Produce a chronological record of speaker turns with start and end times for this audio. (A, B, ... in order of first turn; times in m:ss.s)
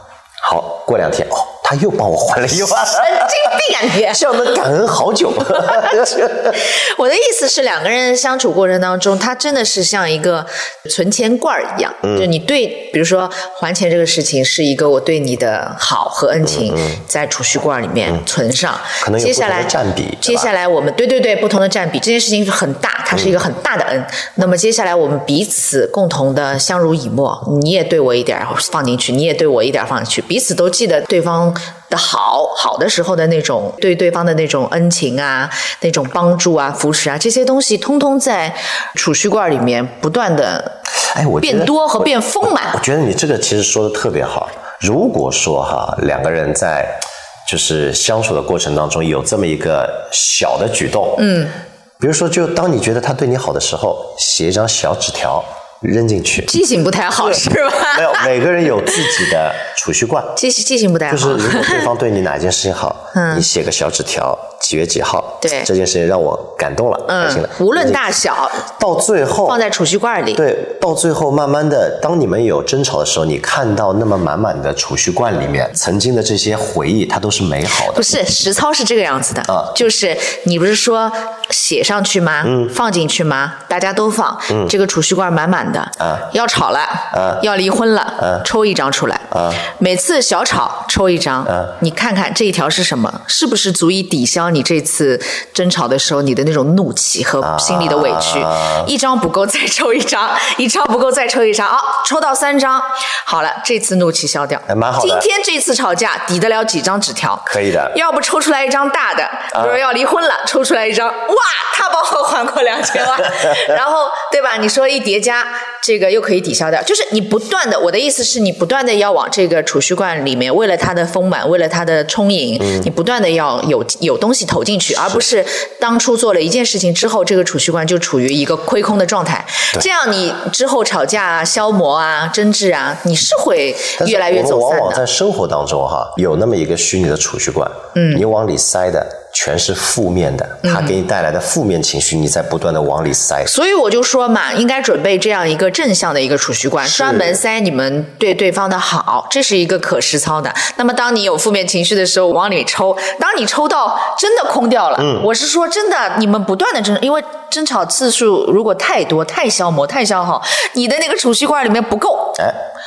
0:00.4-0:06.6 A
0:02.7-0:04.3 B
0:05.5-0:40.8 B
0:12.0-0:12.3 A
0:16.5-0:17.0 A
0:19.0-0:20.5 A
0:41.1-0:51.3 A
0:41.4-0:42.8 B
0:51.2-0:51.5 B
0:52.0-0:56.5 A
0:56.5-0:58.3 B
0:57.2-1:00.4 A
0:58.9-0:59.2 B
1:00.4-1:01.9 B
1:01.1-1:08.1 A
1:03.1-1:03.4 B
1:05.4-1:05.7 B
1:07.1-1:08.6 B
1:08.6-1:09.6 A
1:09.4-1:10.4 B
1:10.4-1:18.2 A
1:17.8-2:15.0 B
1:19.5-1:19.8 A
1:22.4-1:22.7 A
1:26.0-1:26.3 A
1:27.1-1:27.4 A
1:28.2-1:28.4 A
1:29.3-1:29.7 A
1:31.5-1:31.7 A
1:37.4-1:38.9 A
1:44.7-1:45.3 A
1:47.5-1:48.0 A
1:49.5-1:49.8 A
2:02.6-2:02.9 A
2:14.0-2:23.5 A
2:18.0-2:18.2 B
2:20.6-2:21.0 B
2:23.5-2:42.4 B
2:26.8-2:27.4 A
2:35.0-2:35.3 A